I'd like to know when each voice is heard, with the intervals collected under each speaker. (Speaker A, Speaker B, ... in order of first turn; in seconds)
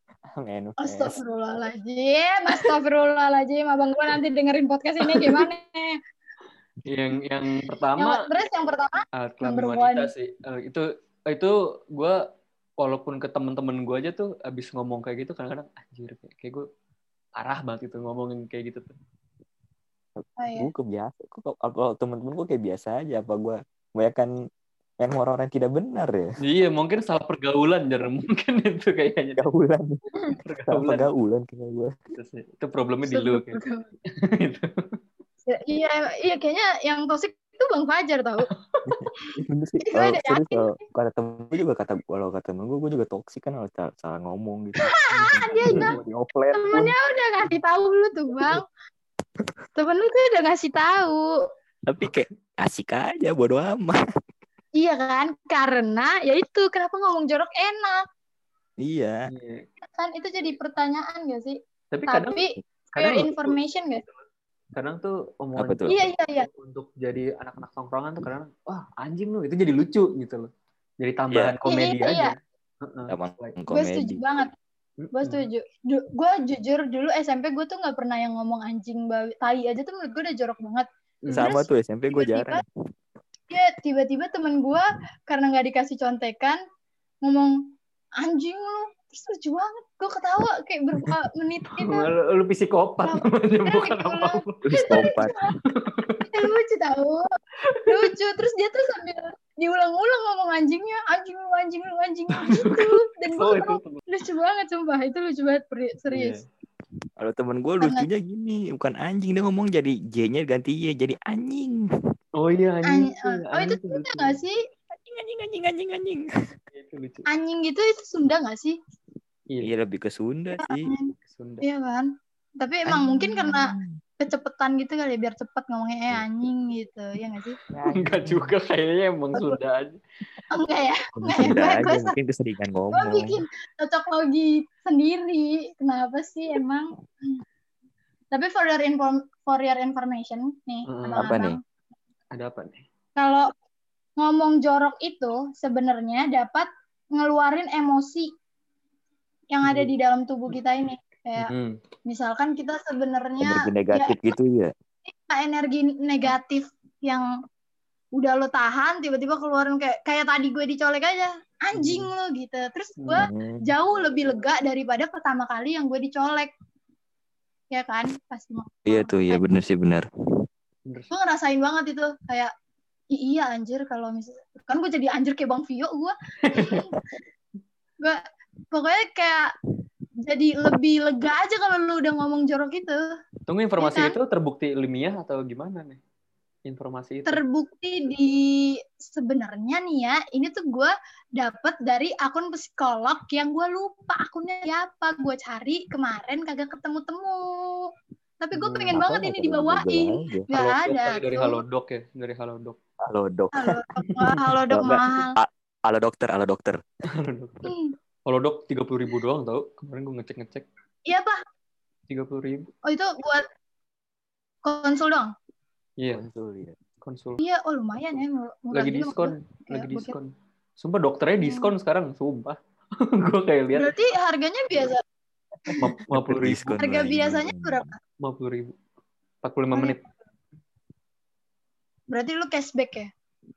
Speaker A: 0.3-1.2, 20.2-24.3, 25.0-26.3, 29.4-30.0, 30.7-32.0, 38.9-46.9, 51.9-54.0, 58.8-59.3, 65.5-65.9, 71.3-71.5, 73.1-74.2, 81.3-82.6, 94.6-95.3, 107.2-111.8, 114.9-116.3, 119.6-120.9, 122.8-124.0, 127.7-128.5, 131.2-133.4, 141.2-141.6, 153.4-154.7, 163.2-163.6, 168.8-170.0, 198.9-200.5, 203.0-203.8, 204.7-206.8, 216.1-216.8, 225.7-227.9
Speaker B: 0.8-6.0, 8.0-10.1, 20.4-20.7, 33.1-33.9, 35.5-38.5, 39.9-40.8, 44.8-45.9, 46.5-48.6, 49.8-51.3, 54.8-58.0, 59.9-64.0, 65.9-66.5, 71.6-72.3, 73.7-74.5, 75.1-82.6, 83.5-86.6, 87.2-87.5, 88.2-92.1, 93.0-95.6, 96.3-97.2, 97.9-106.4, 107.8-108.1, 112.9-114.6, 117.3-118.8, 120.6-127.6, 130.5-132.1, 132.9-137.4, 138.3-141.6, 143.2-143.5, 144.2-148.3, 149.5-151.5, 152.1-154.2, 155.1-157.2, 158.2-166.5, 167.7-169.4, 171.1-172.5, 173.1-176.9, 178.0-179.5, 180.2-183.0, 183.8-184.2, 187.3-197.9, 198.4-201.6, 203.5-205.3, 207.6-207.9, 211.1-211.4, 212.8-213.4, 214.6-215.3, 217.4-220.1, 221.4-221.7, 223.8-225.0, 226.8-228.0, 232.1-233.1
Speaker C: 5.0-5.5, 6.8-8.2, 9.1-12.2, 12.8-16.6, 17.4-18.9, 26.4-29.4, 30.4-31.1, 32.1-33.6, 34.2-34.9, 38.5-39.1, 45.7-46.0, 59.3-59.7, 61.9-62.4, 62.9-63.6, 64.7-73.6, 75.0-75.5, 81.2-81.5, 91.7-94.6, 95.7-96.3, 97.6-98.1, 102.3-104.0, 106.1-106.4, 112.3-114.4, 116.7-117.2, 121.2-121.6, 127.9-130.0, 140.9-141.3, 142.3-142.8, 149.6-149.9, 151.4-151.8, 161.8-162.1, 163.0-163.3, 170.8-171.1, 176.4-176.8, 183.5-186.0, 186.7-187.4, 198.6-199.0, 200.5-202.8, 207.1-207.7, 208.2-210.7, 212.1-212.7, 216.0-216.2, 217.0-217.4, 218.7-223.9, 225.8-226.8, 228.2-228.7, 229.4-230.0